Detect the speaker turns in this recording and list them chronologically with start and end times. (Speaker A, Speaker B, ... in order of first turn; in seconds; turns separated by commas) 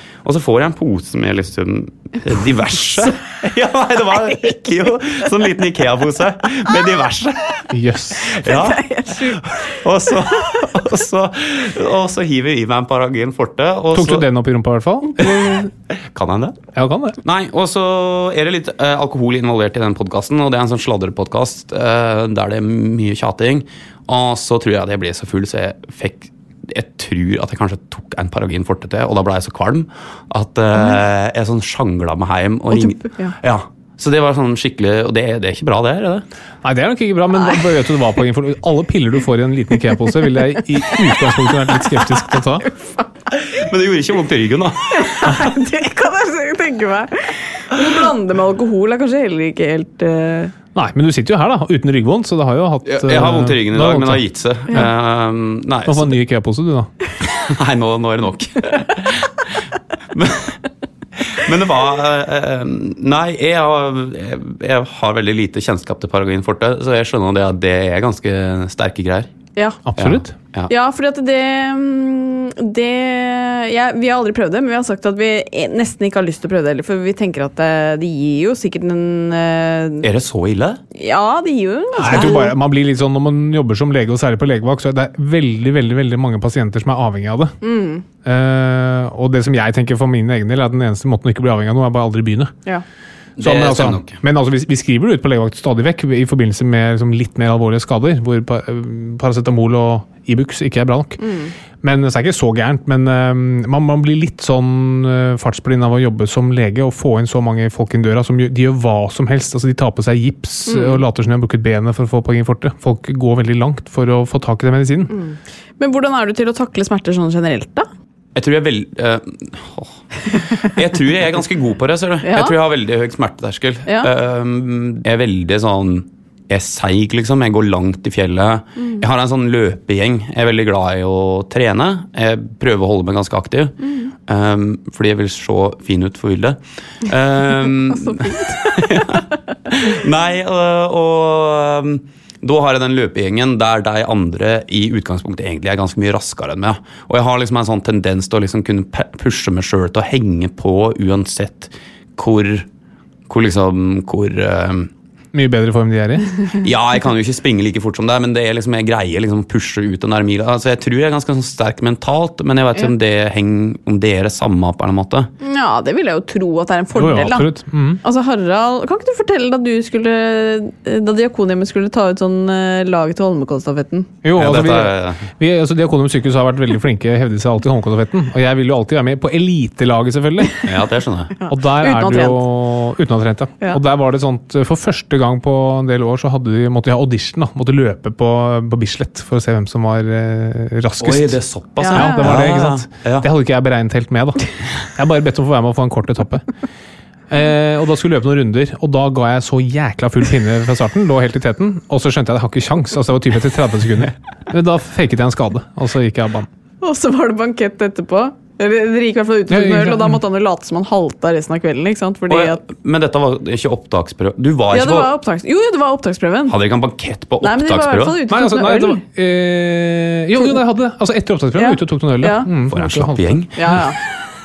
Speaker A: 0.2-7.7, Speaker B: 7.7-8.3, Speaker A: 8.2-14.2, Speaker C: 8.4-9.7, Speaker B: 13.9-15.7, Speaker A: 15.2-16.6, Speaker B: 16.7-17.2, Speaker A: 17.2-36.2, Speaker C: 32.7-33.4, Speaker B: 36.6-42.7, Speaker C: 42.6-43.1, Speaker A: 43.4-45.4, Speaker C: 44.9-50.5, Speaker B: 50.7-54.8, Speaker A: 52.8-56.1, Speaker B: 55.8-56.9, Speaker A: 57.3-59.3, Speaker A: 60.1-60.5, Speaker A: 61.3-69.3, Speaker B: 69.8-70.3, Speaker A: 70.0-70.7, Speaker C: 70.7-80.0, Speaker A: 80.0-80.8, Speaker C: 80.9-82.5, Speaker B: 82.0-87.5, Speaker A: 82.0-82.4, Speaker C: 87.6-88.0, Speaker B: 88.2-92.5, Speaker A: 93.4-94.2, Speaker B: 93.4-101.2, Speaker C: 101.2-101.5, Speaker B: 101.8-115.1, Speaker C: 110.7-111.0, Speaker C: 115.1-117.9, Speaker A: 118.3-119.9, Speaker A: 120.6-152.7, Speaker C: 122.2-122.5, Speaker C: 128.8-129.0, Speaker C: 133.8-134.1, Speaker C: 138.0-139.0, Speaker A: 153.3-154.9, Speaker B: 155.3-156.3, Speaker A: 156.6-165.3, Speaker C: 165.4-167.5, Speaker B: 166.9-168.0, Speaker C: 168.0-174.1, Speaker B: 174.2-180.7, Speaker A: 174.4-175.2, Speaker A: 180.7-181.3, Speaker C: 181.4-182.4, Speaker B: 181.5-191.4, Speaker A: 191.0-193.3, Speaker C: 191.8-192.4, Speaker B: 191.9-196.4, Speaker B: 197.3-206.5, Speaker C: 206.8-212.6, Speaker B: 209.5-210.2, Speaker A: 212.3-215.1, Speaker C: 214.7-216.6, Speaker A: 216.5-218.2, Speaker C: 217.4-219.0, Speaker B: 218.3-223.8, Speaker C: 221.5-222.5, Speaker A: 222.7-223.7, Speaker C: 223.6-224.0